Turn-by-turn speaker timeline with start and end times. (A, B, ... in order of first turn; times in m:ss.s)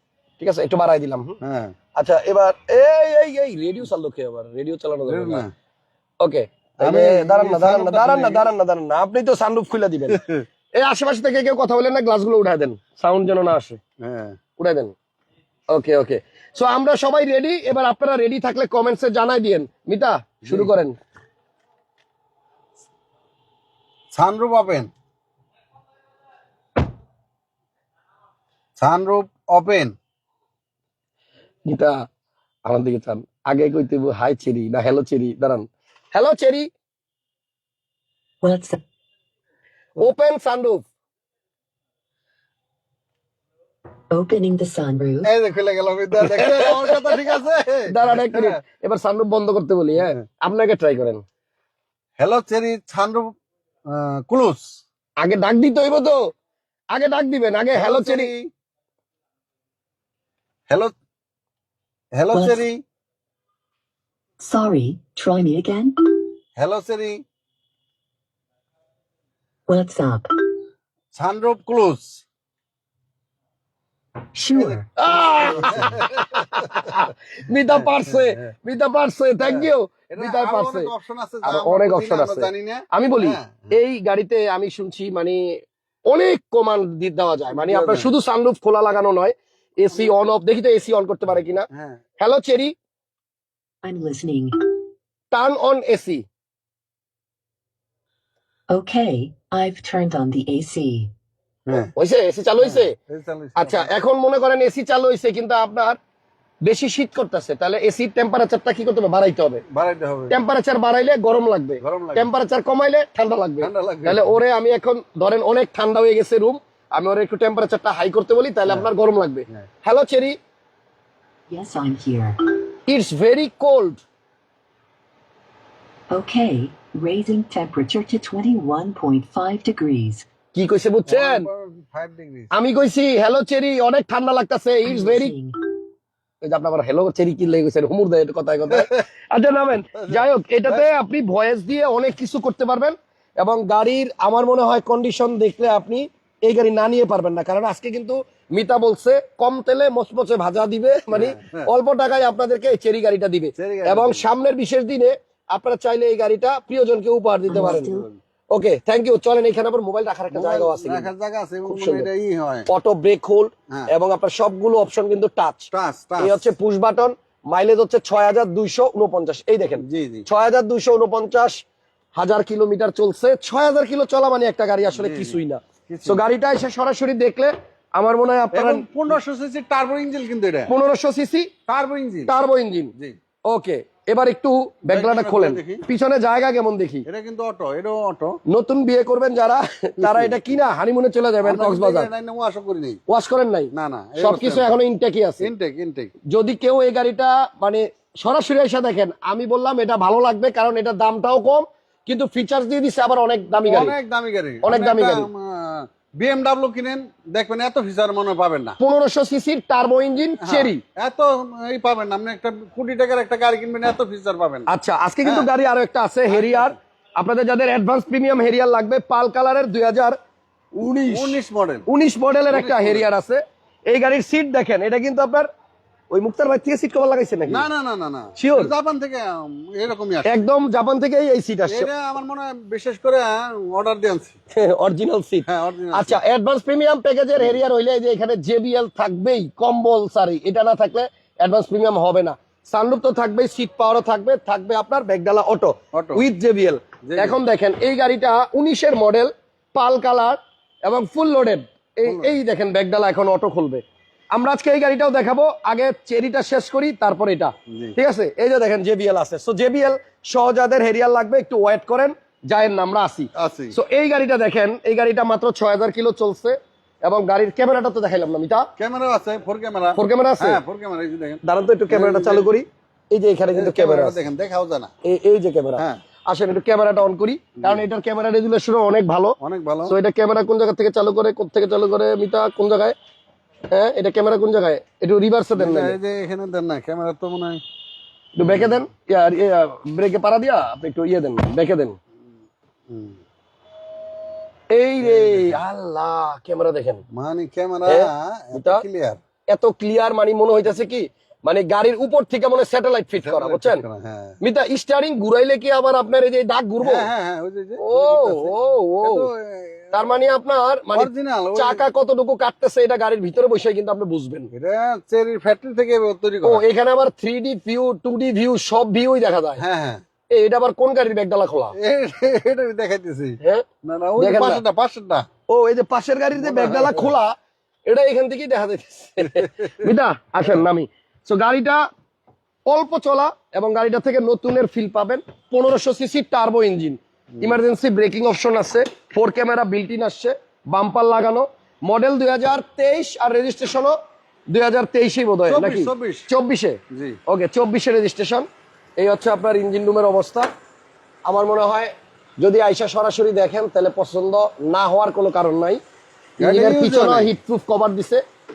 0:00.4-0:01.4 A
0:01.4-0:01.7 B
0:02.0-0:05.4 A
0:05.1-0:05.5 B
0:06.2-0:13.8 A
0:06.8-0:08.5 B
0:10.1-0:10.4 B
0:14.0-0:14.4 B
0:14.6-0:15.0 A
0:15.7-0:21.0 A
0:24.1-0:24.9 B
0:28.8-0:30.0 B
0:31.7-0:31.9 A
0:32.7-0:36.7 A
0:38.4-0:38.8 C
0:40.0-0:40.8 A
0:44.1-0:45.3 C
0:45.2-0:48.6 B
0:46.2-0:47.0 A
0:47.9-0:51.2 A
0:52.2-0:53.3 B
0:53.9-0:54.8 B
0:55.2-0:56.2 A
0:56.9-0:58.3 A
0:57.7-0:58.5 B
1:02.2-1:02.8 B
1:02.3-1:02.6 C
1:04.4-1:06.3 C
1:06.6-1:07.2 B
1:09.7-1:10.5 C
1:11.1-1:12.2 B
1:14.3-1:14.8 C
1:14.5-1:16.2 B
1:15.0-1:20.9 A
1:18.1-1:18.4 B
1:19.4-1:23.7 B
1:21.4-1:25.6 A
1:26.1-1:31.7 A
1:27.5-1:28.1 B
1:31.7-1:32.0 B
1:32.2-1:32.8 A
1:33.8-1:34.7 C
1:35.3-1:36.2 A
1:38.7-1:41.1 C
1:41.7-1:43.0 A
1:42.6-1:43.9 B
1:43.6-1:46.0 A
1:46.6-1:49.6 A
1:49.7-1:50.4 B
1:50.3-2:00.4 A
1:51.8-1:52.3 B
1:53.6-1:54.4 B
2:01.5-2:02.6 C
2:02.9-2:04.0 A
2:06.1-2:10.3 C
2:10.5-2:11.5 A
2:11.1-2:12.5 B
2:12.5-2:15.4 A
2:14.8-2:15.6 C
2:16.4-2:38.0 A
2:20.1-2:20.8 B
2:31.1-2:31.6 B
2:33.6-2:34.2 B
2:37.5-2:38.2 B
2:37.5-2:38.1 C
2:38.5-2:41.1 A
2:40.3-2:42.7 B
2:41.7-2:42.1 A
2:42.7-2:51.6 A
2:45.7-2:46.5 B
2:49.8-2:50.3 B
2:52.2-2:58.9 A
2:54.9-2:55.4 B
2:55.9-2:56.2 B
2:58.5-3:00.7 B
3:00.7-3:01.5 A
3:01.7-3:02.3 B
3:02.3-3:02.9 A
3:03.5-3:07.0 A
3:04.9-3:05.8 B
3:07.1-3:08.4 B
3:08.5-3:12.1 A
3:10.0-3:10.4 B
3:11.4-3:13.0 B
3:13.1-3:15.5 A
3:13.7-3:14.7 B
3:15.4-3:16.1 B
3:16.3-3:24.0 A
3:23.6-3:28.8 B
3:24.6-3:25.3 A
3:28.8-3:30.8 A
3:30.4-3:34.7 B
3:34.7-3:40.2 A
3:35.2-3:35.5 B
3:36.3-3:36.8 B
3:40.7-3:45.5 A
3:41.1-3:41.9 B
3:42.5-3:43.1 B
3:46.1-3:47.7 A
3:47.5-3:50.4 B
3:48.4-3:48.7 A
3:50.3-3:51.9 A
3:51.7-3:54.4 B
3:54.6-4:28.7 A
3:55.4-3:56.2 B
4:05.9-4:06.3 B
4:07.1-4:07.4 B
4:12.1-4:12.4 B
4:17.7-4:18.0 B
4:23.4-4:23.8 B
4:28.8-4:32.6 B
4:30.0-4:30.6 A
4:31.4-4:34.2 A
4:33.5-4:34.9 B
4:35.1-4:39.4 A
4:39.4-4:39.9 B
4:39.9-4:43.0 A
4:43.7-4:46.0 A
4:45.6-4:47.6 B
4:48.4-4:52.0 A
4:48.4-4:48.8 B
4:52.9-4:53.2 B
4:54.7-4:57.0 A
4:55.0-4:55.6 B
4:57.1-4:59.2 B
4:57.9-4:58.8 A
4:59.5-5:03.8 A
5:03.2-5:04.4 B
5:04.4-5:07.1 A
5:06.8-5:10.0 B
5:07.8-5:09.3 A
5:09.9-5:14.5 A
5:10.9-5:11.8 B
5:14.5-5:16.6 B
5:16.4-5:19.6 A
5:19.6-5:20.0 B
5:20.3-5:21.7 A
5:21.8-5:25.3 B
5:24.2-5:24.6 A
5:25.5-5:27.4 A
5:26.4-5:27.1 B
5:27.9-5:31.8 A
5:32.7-5:44.0 A
5:44.5-5:48.5 A
5:45.5-5:46.3 B
5:46.9-5:47.2 B
5:49.0-5:50.5 A
5:51.3-5:55.8 A
5:56.4-5:57.3 B
5:56.4-5:58.2 A